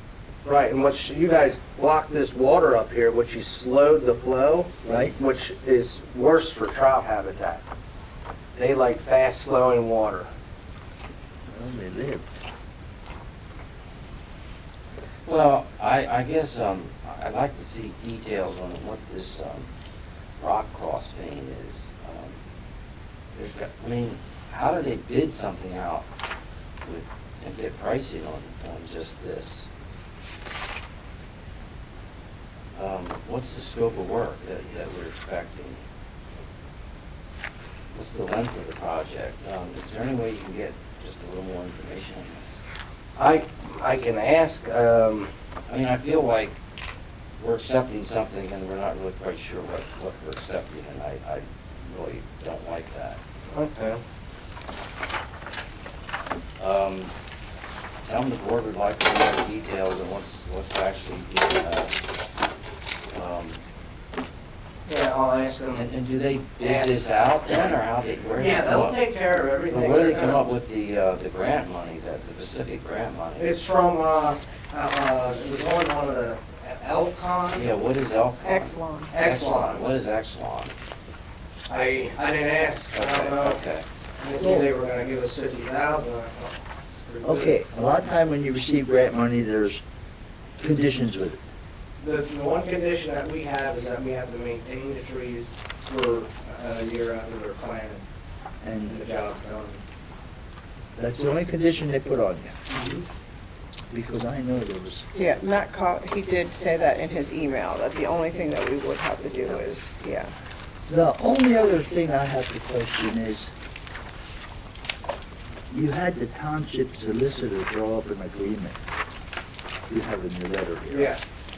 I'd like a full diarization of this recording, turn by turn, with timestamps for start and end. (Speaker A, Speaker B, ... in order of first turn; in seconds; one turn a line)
Speaker A: 0.5-7.6
Speaker B: 4.8-5.2
Speaker A: 8.6-10.3
Speaker B: 11.5-12.4
Speaker C: 15.3-19.7
Speaker C: 20.4-22.4
Speaker C: 23.3-26.1
Speaker C: 26.8-29.7
Speaker C: 32.7-35.8
Speaker C: 37.9-42.6
Speaker A: 43.2-45.3
Speaker C: 45.7-46.6
Speaker C: 47.4-53.2
Speaker A: 53.5-54.0
Speaker C: 56.6-57.1
Speaker C: 58.0-61.9
Speaker C: 63.1-63.6
Speaker A: 64.9-65.8
Speaker C: 65.7-69.0
Speaker A: 66.6-67.0
Speaker A: 68.3-70.4
Speaker C: 69.7-73.6
Speaker A: 73.4-77.7
Speaker C: 77.5-80.8
Speaker D: 78.4-79.1
Speaker A: 79.1-79.8
Speaker A: 81.7-83.6
Speaker C: 82.9-83.8
Speaker A: 84.2-87.5
Speaker B: 84.4-84.7
Speaker B: 87.2-89.8
Speaker B: 90.6-91.4
Speaker A: 92.0-98.0
Speaker B: 98.6-99.0
Speaker A: 98.9-99.8
Speaker B: 101.0-102.6
Speaker A: 102.7-103.0
Speaker B: 103.9-105.1
Speaker D: 105.1-110.3
Speaker B: 110.9-113.5
Speaker B: 115.7-118.8
Speaker B: 119.9-121.2
Speaker A: 120.9-121.2